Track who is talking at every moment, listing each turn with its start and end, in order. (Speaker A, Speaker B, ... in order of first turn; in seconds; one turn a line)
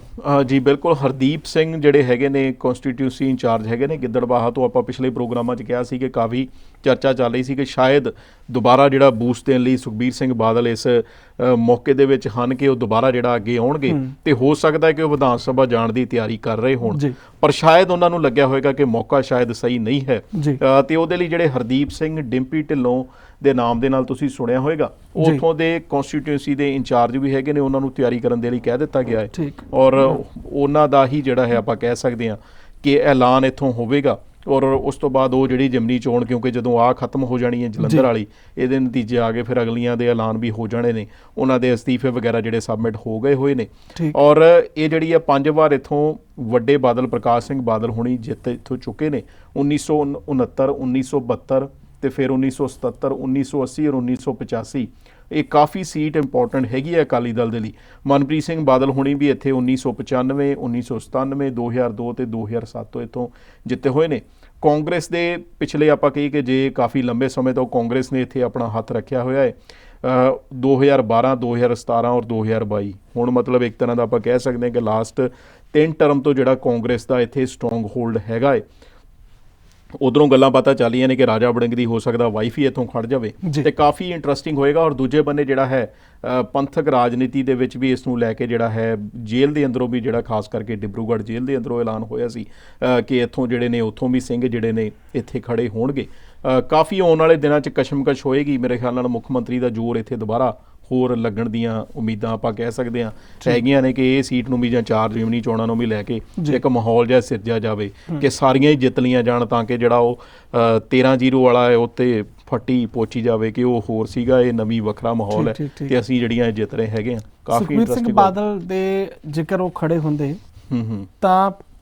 Speaker A: 0.2-78.6
Speaker B: 16.8-17.2
Speaker B: 20.3-20.6
Speaker B: 25.2-25.4
Speaker B: 29.3-29.6
Speaker B: 37.8-38.1
Speaker A: 80.0-118.3
Speaker B: 115.3-116.0
Speaker B: 117.5-120.4
Speaker A: 120.7-121.1
Speaker B: 121.2-121.6